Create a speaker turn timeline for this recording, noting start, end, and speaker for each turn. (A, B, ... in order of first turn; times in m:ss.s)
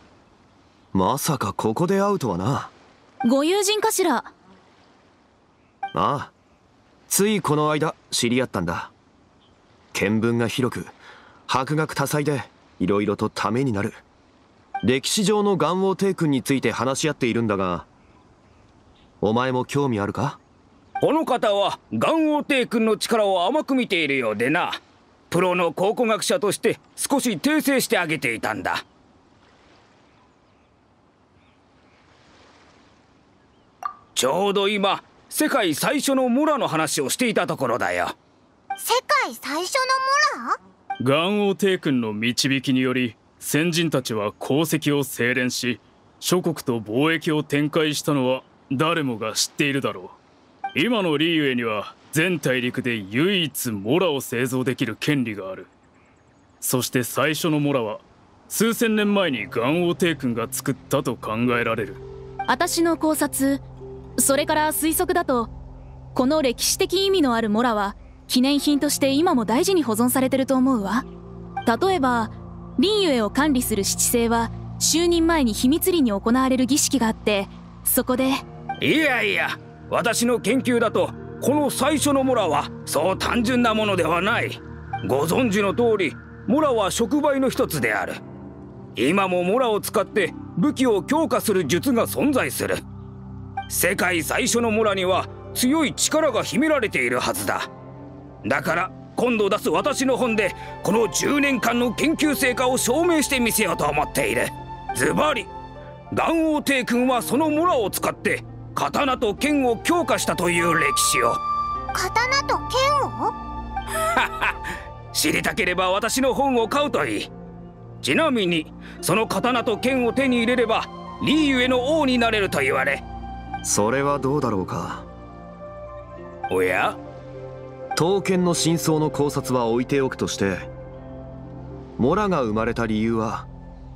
0:00.9-0:02.7 A
0:03.2-0:04.3 B
0:05.9-0:06.3 A
0:07.1-0:08.9 A
0:09.9-0:10.9 A
0:11.5-0:14.0 A
0:14.8-0:17.9 A
0:19.2-0:20.4 A
0:21.0-0:28.8 C
0:34.1-0:38.1 C
0:38.8-0:40.6 D
0:41.0-0:50.2 E
0:50.7-0:55.7 E
0:56.6-1:02.0 E
1:02.5-1:03.6 B
1:04.2-1:05.5 B
1:06.1-1:11.0 B
1:11.6-1:18.4 B
1:18.8-1:28.2 C
1:29.0-1:32.8 C
1:33.7-1:37.7 C
1:38.4-1:45.5 C
1:46.1-1:51.4 C
1:51.9-1:53.3 D
1:54.2-1:54.5 C
1:55.1-1:57.3 C
1:58.0-2:03.0 C
2:03.6-2:05.1 A
2:06.5-2:07.0 C
2:08.0-2:10.7 A
2:12.0-2:13.5 A